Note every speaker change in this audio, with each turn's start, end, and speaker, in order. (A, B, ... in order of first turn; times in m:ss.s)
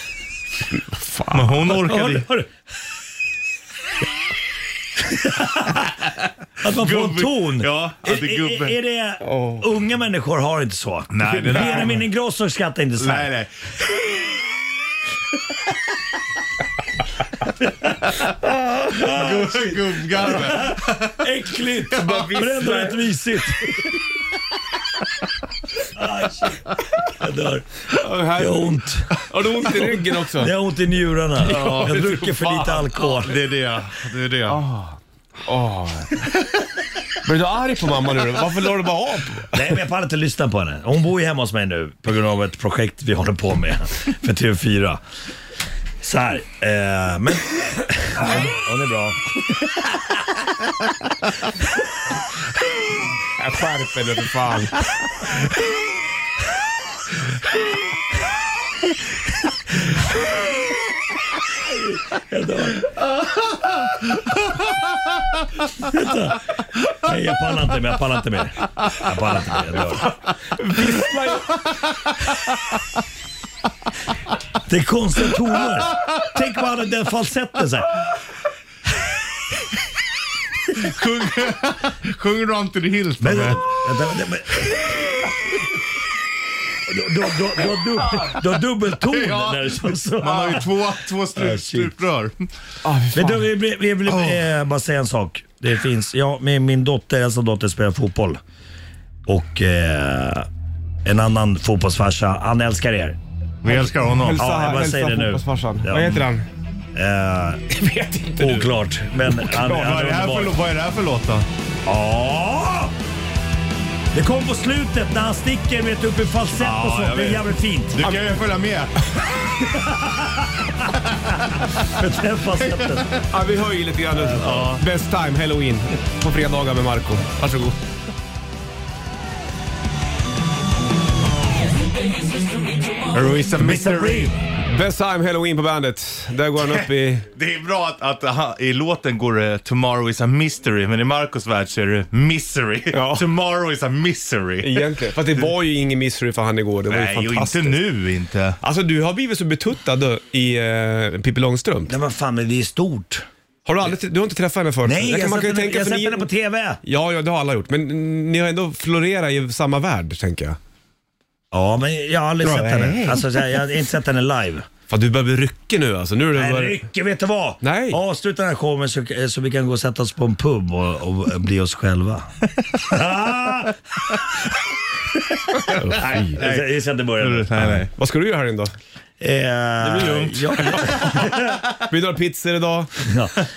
0:00.7-0:01.6 A
0:01.3-0:02.3 B
0:01.7-0:02.5 C
0:05.1-0:05.9 C
0:06.6-0:13.3 C
0:06.6-0:08.8 B
0:09.2-0:09.6 A
0:11.1-0:12.0 B
0:13.0-0:14.2 B
0:18.8-0:23.8 C
0:18.9-0:21.2 B
0:21.9-0:22.3 B
0:22.0-0:23.0 A
0:25.9-0:29.1 C
0:27.9-0:30.5 A
0:30.4-0:33.3 C
0:31.4-0:33.0 A
0:31.5-0:32.0 B
0:33.0-0:34.6 B
0:34.5-0:36.3 A
0:37.2-0:39.6 A
0:39.5-0:45.0 C
0:46.0-0:49.3 C
0:53.4-0:54.8 A
1:01.6-1:02.9 C
1:05.8-1:10.0 C
1:10.0-1:11.7 A
1:14.7-1:18.0 C
1:20.8-1:23.7 B
1:23.2-1:24.9 C
1:26.9-1:30.8 C
1:29.1-1:32.5 B
1:31.3-1:31.9 C
1:32.8-1:33.4 A
1:33.1-1:38.4 C
1:34.0-1:34.5 B
1:39.3-1:40.5 C
1:41.0-1:43.2 C
1:43.6-1:44.4 B
1:43.7-1:46.4 A
1:44.4-1:46.2 C
1:46.9-1:47.7 C
1:47.7-1:48.7 A
1:48.4-1:50.5 C
1:49.5-1:51.5 B
1:51.8-1:52.9 C
1:54.1-1:58.0 C
1:56.5-1:59.0 B
1:59.7-2:00.5 C
2:01.8-2:03.1 C
2:02.6-2:03.0 B
2:03.3-2:07.7 A
2:04.3-2:04.8 B
2:13.1-2:14.3 B
2:13.4-2:14.3 C
2:14.7-2:17.3 A
2:16.6-2:25.5 B
2:22.9-2:23.2 A
2:24.6-2:27.8 A
2:26.9-2:28.6 B
2:28.6-2:31.9 A
2:31.9-2:33.2 C
2:33.6-2:36.3 A
2:34.8-2:36.8 C
2:36.8-2:40.6 A
2:41.5-2:44.6 C
2:42.4-2:43.4 A
2:44.9-2:46.8 A
2:46.3-2:53.8 C
2:47.6-2:48.0 A
2:55.5-2:57.5 C
2:55.7-2:56.4 A
2:56.4-2:57.9 B
2:57.6-2:58.7 A
2:59.2-3:01.6 C
2:59.9-3:01.4 B
2:59.9-3:01.1 A
3:01.9-3:03.0 A
3:03.0-3:03.4 C